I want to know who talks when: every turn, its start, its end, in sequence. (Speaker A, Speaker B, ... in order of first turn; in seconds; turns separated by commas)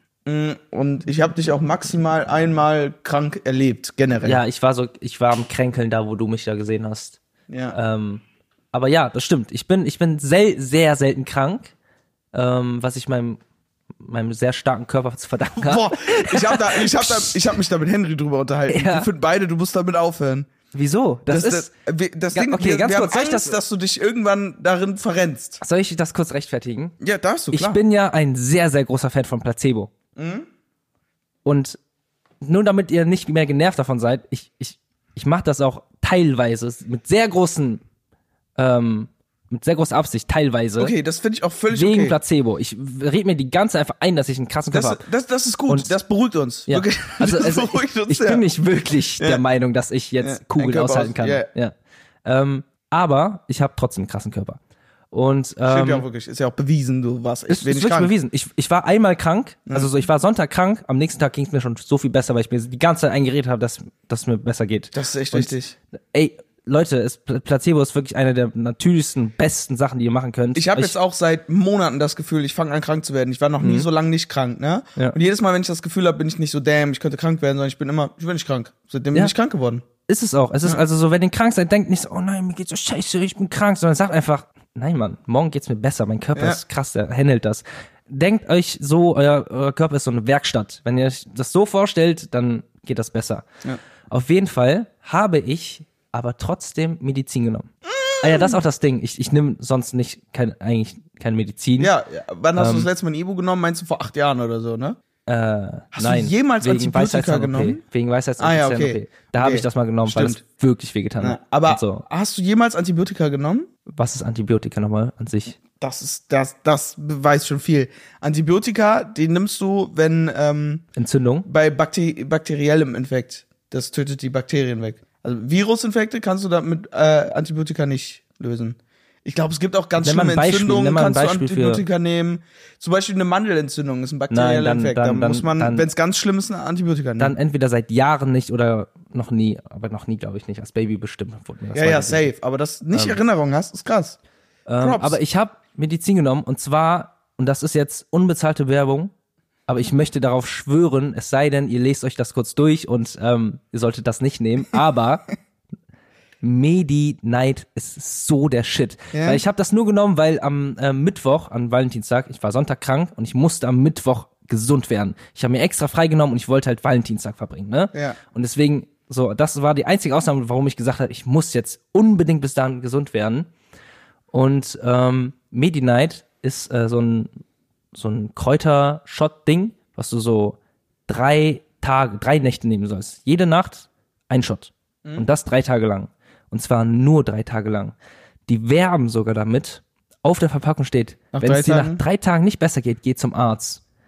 Speaker A: 0.2-4.4, Speaker B: 4.2-7.2, Speaker A: 7.5-7.8, Speaker B: 7.7-11.7, Speaker B: 12.3-13.4, Speaker B: 14.0-17.4, Speaker A: 15.6-20.5, Speaker B: 18.7-19.1, Speaker B: 20.7-21.7, Speaker A: 21.3-25.6, Speaker B: 22.3-23.6, Speaker B: 25.6-26.9, Speaker A: 27.0-27.8, Speaker B: 27.5-29.9, Speaker A: 30.1-30.5, Speaker B: 31.4-31.8, Speaker B: 32.4-37.8, Speaker B: 38.6-40.9, Speaker A: 40.8-42.1, Speaker B: 41.7-45.0, Speaker A: 44.7-48.4, Speaker B: 45.7-46.0, Speaker B: 46.7-51.7, Speaker A: 50.2-51.5, Speaker B: 52.2-54.6, Speaker B: 55.1-56.0, Speaker A: 55.6-58.1, Speaker B: 57.5-65.5, Speaker A: 64.9-65.7, Speaker B: 66.1-70.9, Speaker A: 70.5-79.8, Speaker B: 73.6-73.9, Speaker B: 80.1-93.5, Speaker A: 86.3-86.6, Speaker B: 94.1-101.9, Speaker A: 97.9-98.6, Speaker A: 101.8-105.0, Speaker B: 102.5-102.9, Speaker B: 105.3-112.0, Speaker A: 105.9-107.8, Speaker A: 108.4-110.4, Speaker A: 111.2-113.7, Speaker B: 113.9-115.6, Speaker A: 115.8-120.8, Speaker B: 121.0-121.5, Speaker A: 121.5-137.3, Speaker B: 130.0-131.8, Speaker B: 134.3-135.9, Speaker B: 137.2-142.3, Speaker A: 141.7-144.2, Speaker B: 142.9-143.2, Speaker B: 144.7-149.1, Speaker A: 144.8-145.2, Speaker B: 149.7-155.2, Speaker B: 156.4-173.5, Speaker A: 159.1-159.4, Speaker B: 174.3-177.3, Speaker B: 177.9-187.9, Speaker B: 188.5-193.8, Speaker A: 191.3-192.0